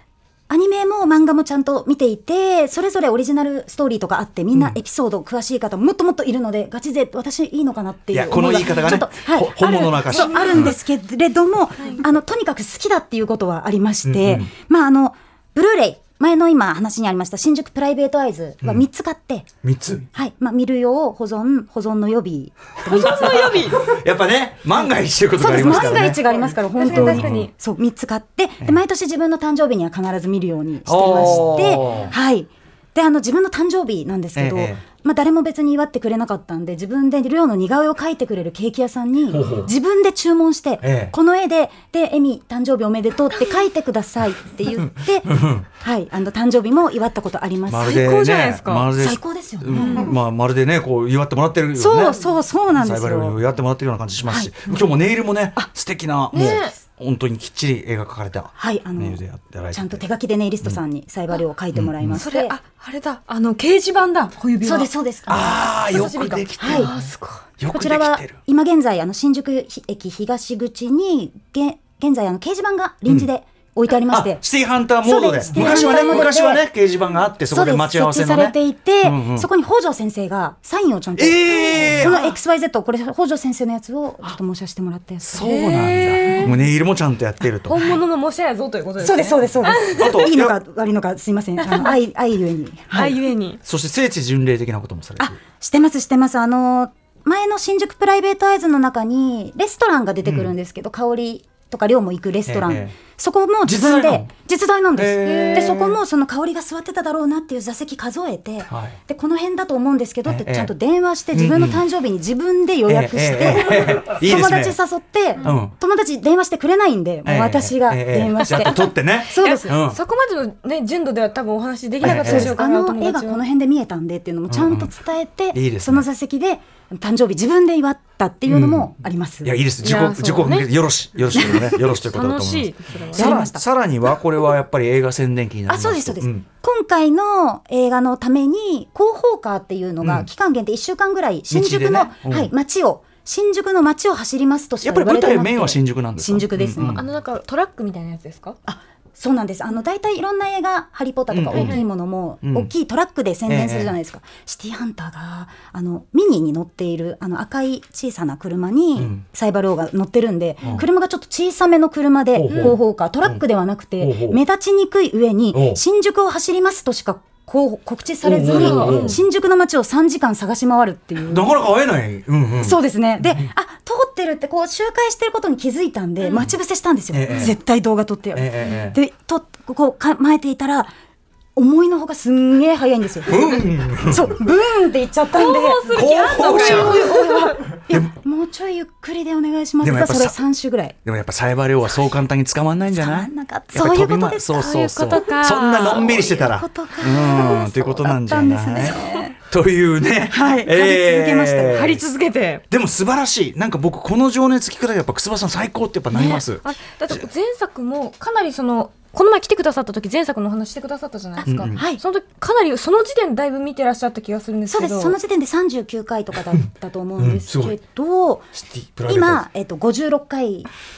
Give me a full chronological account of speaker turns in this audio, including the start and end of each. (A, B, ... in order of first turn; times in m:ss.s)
0:00.5-0:19.5 A
0:08.1-0:10.8 B
0:08.7-0:08.9 C
0:10.1-0:10.7 C
0:14.0-0:14.5 B
0:19.6-0:20.1 B
0:20.1-0:23.6 A
0:22.8-0:23.8 C
0:22.9-0:26.2 B
0:25.4-0:48.0 A
0:25.8-0:27.5 C
0:26.8-0:27.5 B
0:30.8-0:32.1 B
0:31.2-0:32.1 C
0:34.4-0:34.8 B
0:39.3-0:39.7 B
0:40.8-0:41.1 B
0:44.8-0:45.7 B
0:47.7-1:00.0 B
0:47.8-0:48.9 C
0:49.0-0:50.1 A
0:49.7-0:50.1 C
0:51.8-0:53.4 A
0:54.2-0:54.5 A
0:56.3-0:56.7 C
0:58.6-0:59.2 A
0:59.7-1:02.6 A
1:01.7-1:02.2 B
1:02.1-1:07.4 C
1:04.6-1:05.7 A
1:05.3-1:07.1 B
1:06.6-1:06.9 A
1:07.6-1:08.4 B
1:07.7-1:14.4 A
1:14.1-1:19.5 B
1:15.0-1:16.6 A
1:15.5-1:16.3 C
1:17.5-1:25.4 A
1:21.2-1:22.2 B
1:21.6-1:22.3 C
1:25.2-1:27.8 B
1:25.4-1:26.6 C
1:27.7-1:30.2 C
1:29.0-1:33.2 A
1:29.9-1:30.6 B
1:31.6-1:32.0 C
1:32.9-1:33.6 C
1:33.6-1:35.4 B
1:35.2-1:59.7 A
1:40.2-1:40.5 B
1:42.5-1:42.9 B
1:43.6-1:44.3 B
1:44.9-1:46.0 B
1:45.2-1:45.8 C
1:48.7-1:49.0 B
1:50.2-1:50.7 B
1:51.3-1:51.8 B
1:52.9-1:54.8 B
1:55.4-1:55.7 B
1:57.2-2:00.0 B
1:58.4-2:03.4 C
2:02.0-2:02.5 B
2:02.0-2:09.6 A
2:04.5-2:04.9 B
2:05.5-2:06.0 B
2:08.4-2:08.9 B
2:09.4-2:16.4 B
2:09.8-2:10.7 C
2:11.3-2:13.4 C
2:13.1-2:13.6 A
2:15.7-2:27.0 A
2:20.0-2:20.3 B
2:21.5-2:22.5 B
2:24.8-2:27.0 B
2:26.8-2:28.6 C
2:28.6-2:51.5 A
2:31.3-2:31.8 B
2:31.5-2:31.8 C
2:32.4-2:32.7 B
2:33.5-2:34.0 B
2:39.0-2:39.2 B
2:42.3-2:43.4 B
2:42.5-2:42.8 C
2:44.0-2:44.4 B
2:45.5-2:45.8 B
2:48.2-2:49.2 B
2:48.4-2:49.2 C
2:51.2-2:52.8 B
2:52.6-3:00.9 A
2:57.1-2:57.6 B
2:57.3-2:57.5 C
2:58.3-2:59.0 B
2:58.6-2:58.9 C
3:01.6-3:10.9 A
3:03.2-3:04.4 B
3:05.3-3:07.6 C
3:05.9-3:07.0 B
3:07.9-3:08.1 B
3:09.8-3:10.4 B
3:11.0-3:22.0 B
3:12.9-3:19.4 A
3:14.5-3:16.2 C
3:20.3-3:21.8 A
3:21.7-3:22.6 C
3:22.7-3:27.2 B
3:26.1-3:35.2 C
3:31.4-3:32.0 A
3:31.4-3:31.8 B
3:34.7-3:38.5 A
3:37.2-3:37.8 B
3:38.5-3:39.4 B
3:39.0-3:40.7 A